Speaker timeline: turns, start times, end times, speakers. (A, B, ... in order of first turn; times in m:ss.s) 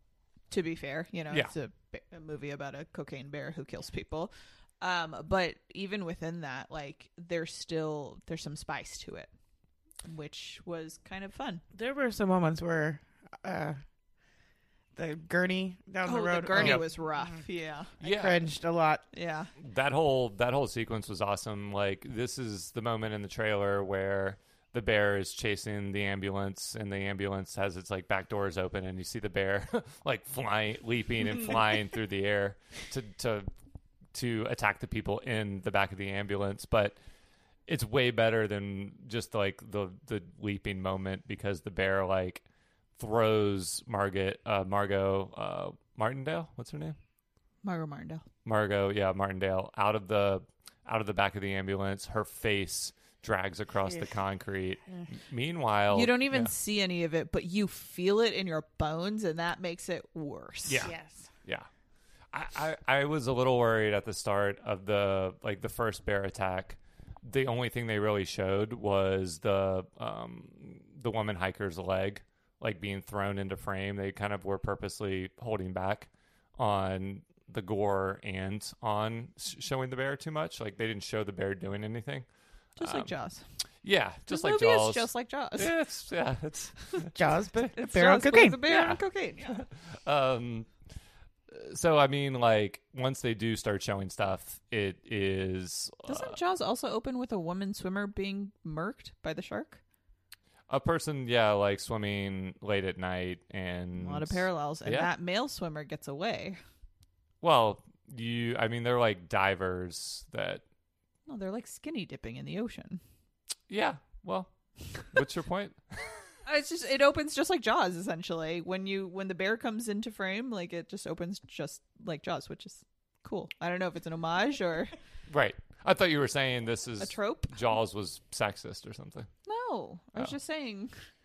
0:00.5-0:09.3 A
0:10.0-0:11.6 A
0:11.7-0:13.8 B
0:14.9-0:17.4 B
0:16.0-0:17.9 A
0:16.6-0:16.8 C
0:18.0-0:19.0 B
0:18.0-0:18.4 C
0:19.1-0:19.5 A
0:19.6-0:33.5 C
0:34.1-0:37.0 C
0:37.7-0:42.4 C
0:43.0-0:47.0 C
0:47.6-0:48.2 A
0:48.4-0:56.5 C
0:55.9-1:00.9 A
1:00.7-1:00.9 C
1:00.8-1:01.3 B
1:02.3-1:22.3 C
1:22.8-1:23.4 A
1:22.8-1:23.1 C
1:23.8-1:27.1 C
1:24.3-1:25.7 A
1:27.1-1:28.6 B
1:27.7-1:29.6 A
1:28.7-1:30.7 C
1:31.5-1:36.4 C
1:36.0-1:39.8 A
1:40.7-1:45.1 C
1:44.0-1:46.6 A
1:47.4-1:50.6 C
1:51.3-1:53.0 A
1:53.7-1:54.5 C
1:55.0-1:55.8 C
1:56.4-2:04.9 A
2:05.3-2:09.3 C
2:07.0-2:07.6 A
2:09.4-2:10.9 A